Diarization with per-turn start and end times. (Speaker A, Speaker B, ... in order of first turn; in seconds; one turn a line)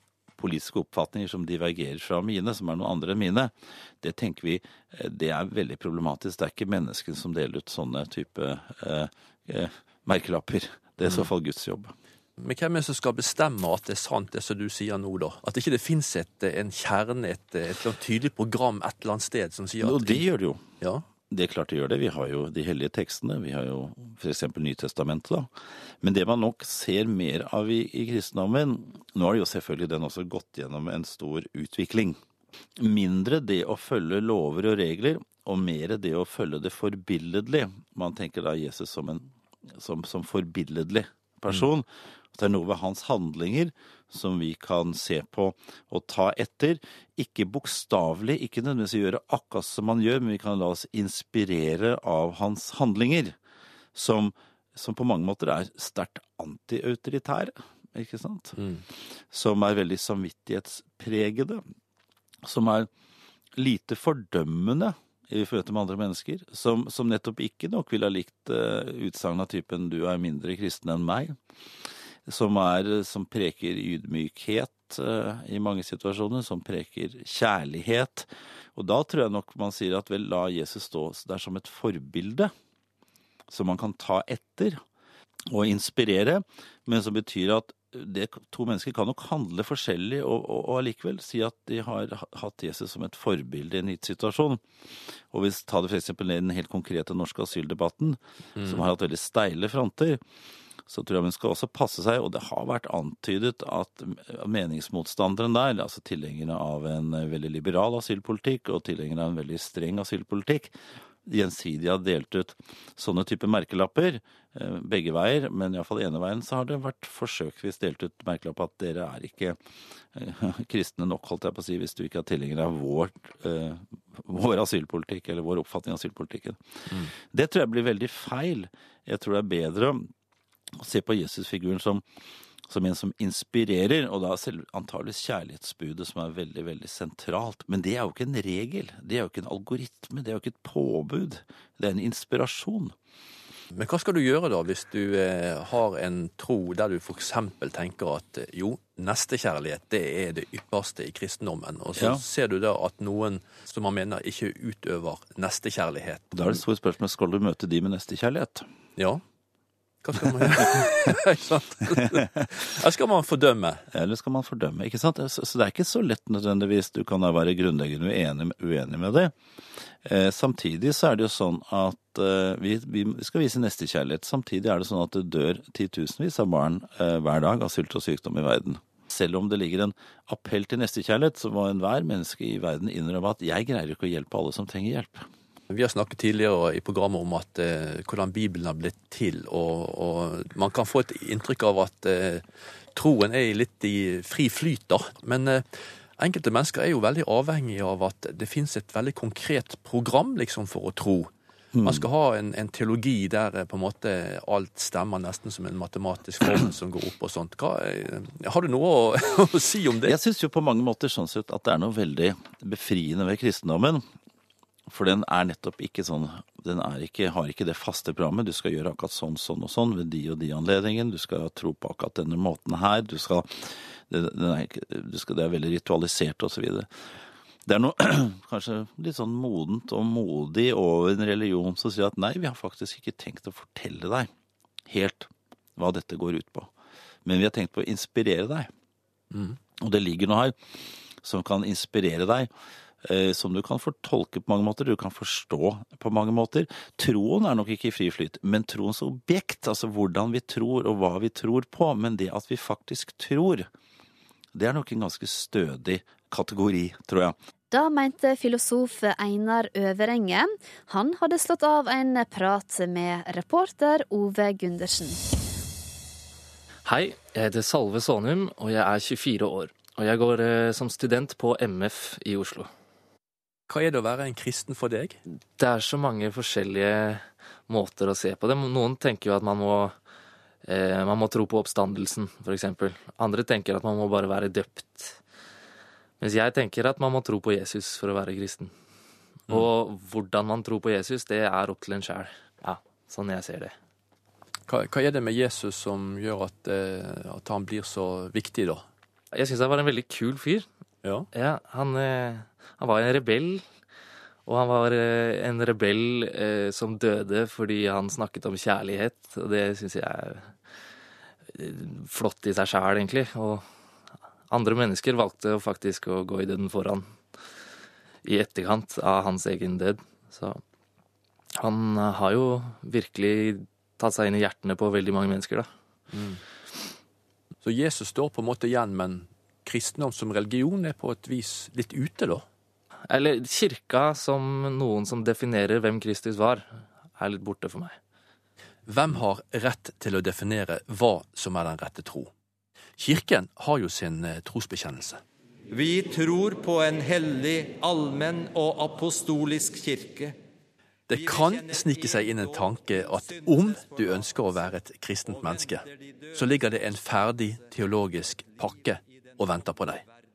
Speaker A: 0.4-11.9
Speaker B: 11.0-11.3
Speaker B: 12.4-20.3
Speaker A: 19.8-20.6
Speaker B: 20.8-21.1
Speaker A: 21.3-25.5
Speaker A: 26.0-32.2
Speaker A: 32.8-53.3
Speaker A: 53.9-58.6
Speaker B: 58.6-58.8
Speaker A: 59.3-61.6
Speaker A: 62.5-62.9
Speaker A: 63.6-71.4
Speaker A: 72.3-82.5
Speaker A: 83.5-84.8
Speaker A: 85.5-94.6
Speaker A: 95.3-100.2
Speaker B: 98.6-98.9
Speaker A: 100.9-110.7
Speaker A: 111.3-119.6
Speaker A: 120.1-130.1
Speaker A: 130.8-132.0
Speaker A: 132.7-142.9
Speaker B: 143.8-156.6
Speaker A: 151.9-152.2
Speaker A: 156.3-158.7
Speaker B: 159.0-159.2
Speaker B: 160.0-163.8
Speaker A: 163.9-169.3
Speaker A: 170.0-185.3
Speaker B: 185.7-201.3
Speaker A: 201.7-202.1
Speaker B: 201.8-210.1
Speaker A: 210.1-214.0
Speaker A: 214.9-226.9
Speaker A: 227.7-234.3
Speaker A: 234.9-236.7
Speaker A: 237.3-238.7
Speaker B: 239.3-239.6
Speaker A: 239.8-242.5
Speaker A: 243.1-253.7
Speaker A: 254.6-257.4
Speaker C: 257.7-265.2
Speaker D: 266.9-272.7
Speaker B: 273.7-275.2
Speaker D: 275.6-279.9
Speaker D: 280.7-285.2
Speaker D: 286.2-288.7
Speaker D: 289.5-293.7
Speaker B: 294.7-298.9
Speaker D: 299.3-300.7
Speaker D: 301.3-303.6
Speaker D: 304.5-310.5
Speaker D: 311.6-313.6
Speaker D: 314.5-317.1
Speaker D: 318.2-320.6
Speaker D: 321.6-325.7
Speaker B: 326.1-326.4
Speaker B: 327.6-332.4
Speaker D: 333.1-338.0
Speaker B: 338.9-342.3
Speaker B: 343.0-345.2
Speaker E: 345.7-350.4
Speaker B: 351.1-360.0
Speaker E: 351.1-352.7
Speaker E: 353.3-354.2
Speaker E: 355.3-356.3